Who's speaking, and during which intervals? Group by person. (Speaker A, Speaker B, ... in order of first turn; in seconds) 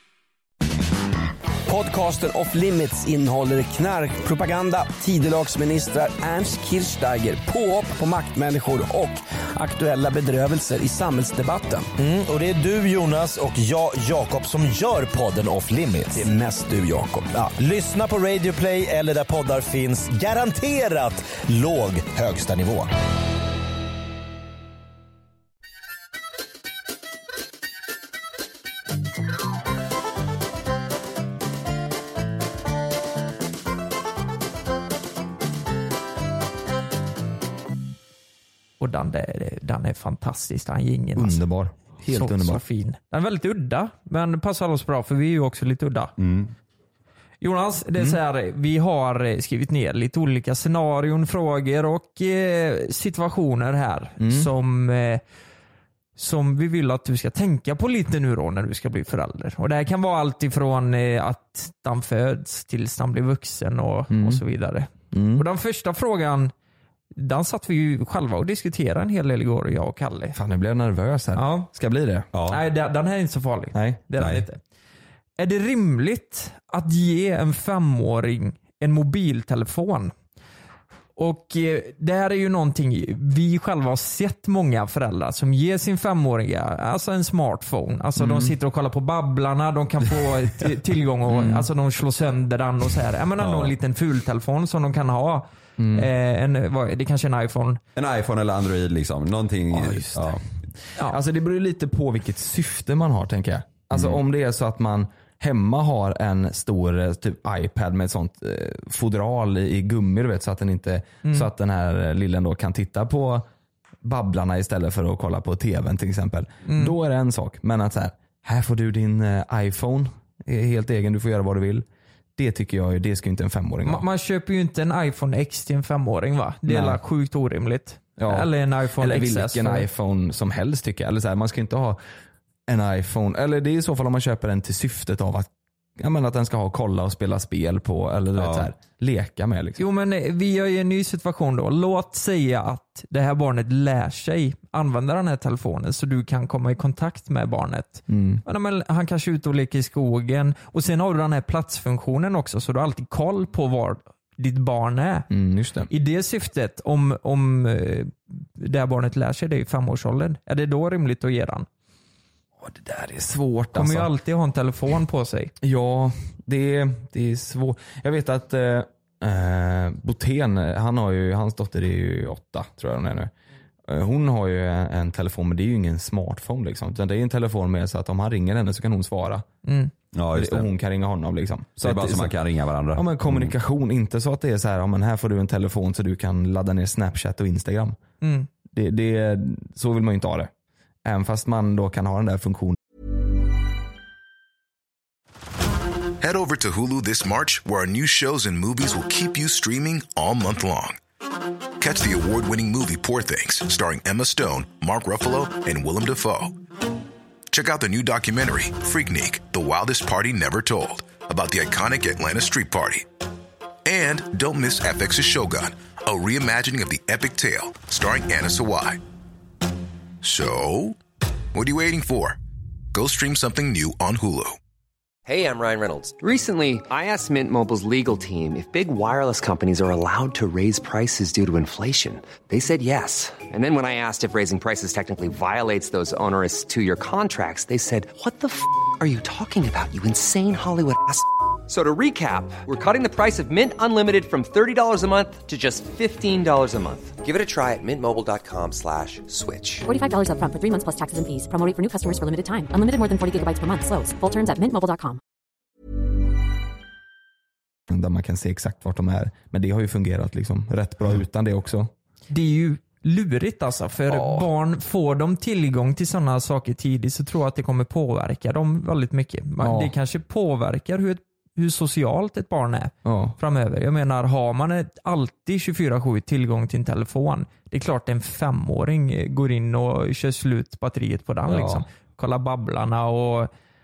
Speaker A: 1.6-12.0, 16.2-17.5
Speaker B: 12.0-16.3, 17.5-22.9
Speaker C: 38.8-41.4, 42.1-46.1, 47.4-55.2, 56.1-66.5, 67.1-70.4, 71.3-71.7, 72.5-74.6, 75.4-80.1, 81.2-97.8, 116.6-116.9, 123.8-129.8, 139.8-155.3, 155.9-161.7, 163.7-165.5, 179.6-179.9, 188.2-188.5, 262.3-283.5
Speaker D: 41.1-42.6, 54.2-54.5, 64.1-64.4, 65.1-65.5, 70.3-72.3, 73.7-74.0, 88.2-88.5, 91.3-91.7, 95.8-96.1, 99.7-100.4, 101.0-113.5, 114.0-121.8, 122.4-124.0, 126.7-127.0, 128.2-132.0, 132.7-139.8, 148.1-148.4, 155.3-155.9, 162.6-164.1, 165.6-173.3, 173.9-179.4, 180.3-182.3, 182.9-188.0, 188.7-190.5, 191.0-192.8, 257.9-261.9, 264.1-264.5, 269.6-269.9, 273.0-273.4, 281.5-281.9
Speaker E: 46.2-46.5, 72.3-72.6, 74.2-74.4, 93.4-93.7, 98.0-100.4, 138.4-138.7, 180.1-180.7, 181.8-183.5
Speaker F: 196.2-201.0, 201.8-206.5, 207.5-213.1, 213.8-219.0, 220.2-221.0, 221.5-222.4, 222.9-224.6
Speaker G: 225.2-249.9
Speaker H: 249.9-255.2